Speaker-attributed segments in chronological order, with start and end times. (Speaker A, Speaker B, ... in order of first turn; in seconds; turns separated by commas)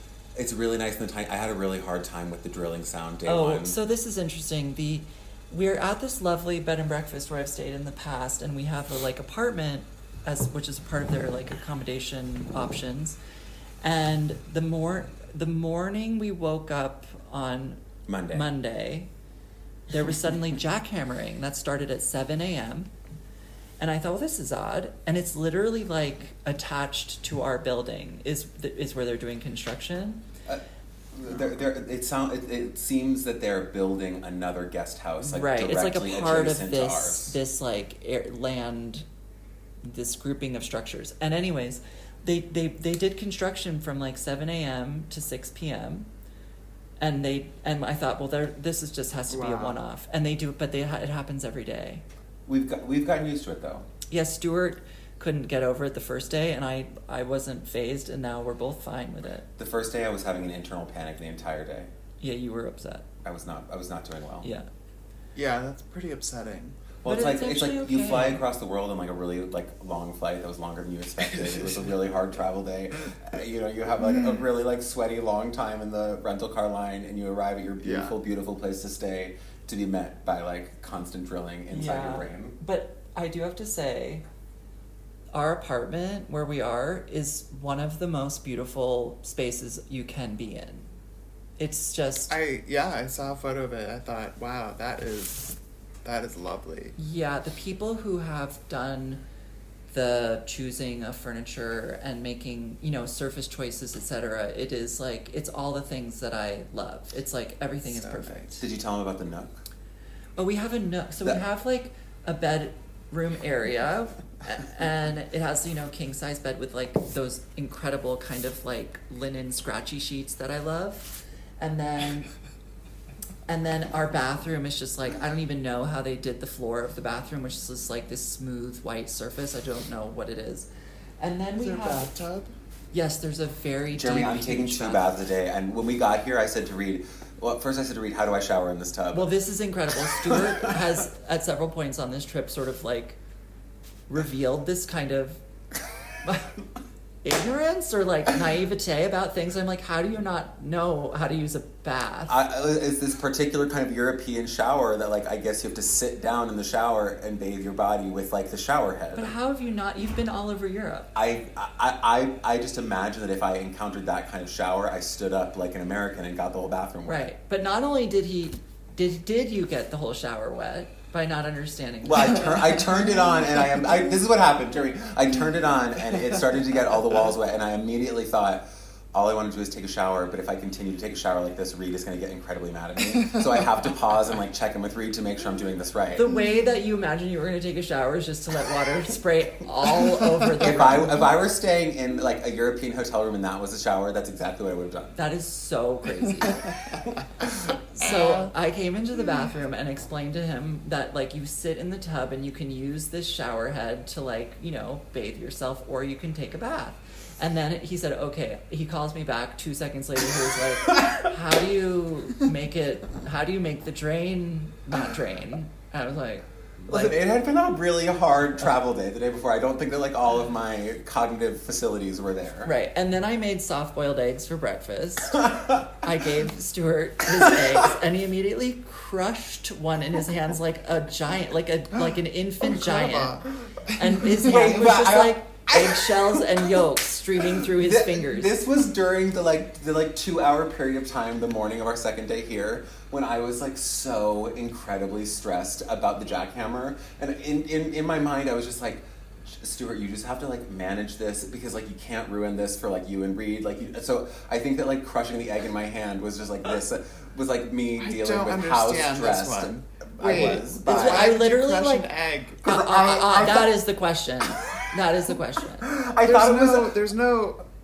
Speaker A: 0.3-3.8, Speaker B: 3.2-13.2, Speaker B: 13.8-17.8, Speaker A: 18.1-18.4, Speaker B: 18.3-19.1, Speaker B: 19.9-22.9, Speaker B: 23.8-30.2, Speaker A: 30.4-37.4, Speaker B: 35.2-39.0, Speaker B: 39.8-46.1, Speaker B: 47.0-52.0, Speaker C: 49.3-49.8, Speaker A: 52.5-53.9, Speaker B: 54.1-59.5, Speaker A: 59.6-61.9, Speaker B: 62.2-63.0, Speaker A: 63.2-64.5, Speaker C: 65.3-66.8, Speaker A: 67.0-82.6, Speaker B: 67.0-68.4, Speaker C: 74.1-74.3, Speaker C: 77.8-78.2, Speaker B: 81.7-84.2, Speaker B: 85.3-90.9, Speaker B: 91.6-92.4, Speaker C: 92.3-97.0, Speaker B: 97.0-99.2, Speaker B: 99.9-108.6, Speaker C: 107.8-108.5, Speaker A: 108.6-109.6, Speaker B: 110.4-122.3, Speaker B: 123.5-130.7, Speaker B: 131.2-132.1, Speaker C: 131.6-132.5, Speaker B: 132.9-135.2, Speaker A: 133.9-139.3, Speaker B: 139.1-143.2, Speaker A: 140.0-140.8, Speaker B: 144.1-145.4, Speaker B: 146.2-146.6, Speaker B: 147.2-152.4, Speaker A: 152.3-159.3, Speaker B: 159.1-161.1, Speaker A: 161.1-167.2, Speaker B: 167.1-173.0, Speaker A: 172.0-186.3, Speaker B: 186.1-191.2, Speaker A: 190.5-195.2, Speaker B: 195.1-196.7, Speaker B: 197.5-217.1, Speaker C: 198.0-198.5, Speaker A: 216.8-222.7, Speaker B: 222.6-238.6, Speaker A: 225.3-225.9, Speaker A: 227.3-227.8, Speaker C: 231.9-234.3, Speaker A: 234.4-236.8, Speaker A: 237.4-261.3, Speaker C: 258.0-262.7, Speaker B: 260.3-262.1, Speaker B: 262.6-265.9, Speaker A: 262.6-263.7, Speaker A: 265.8-267.0, Speaker C: 266.2-267.6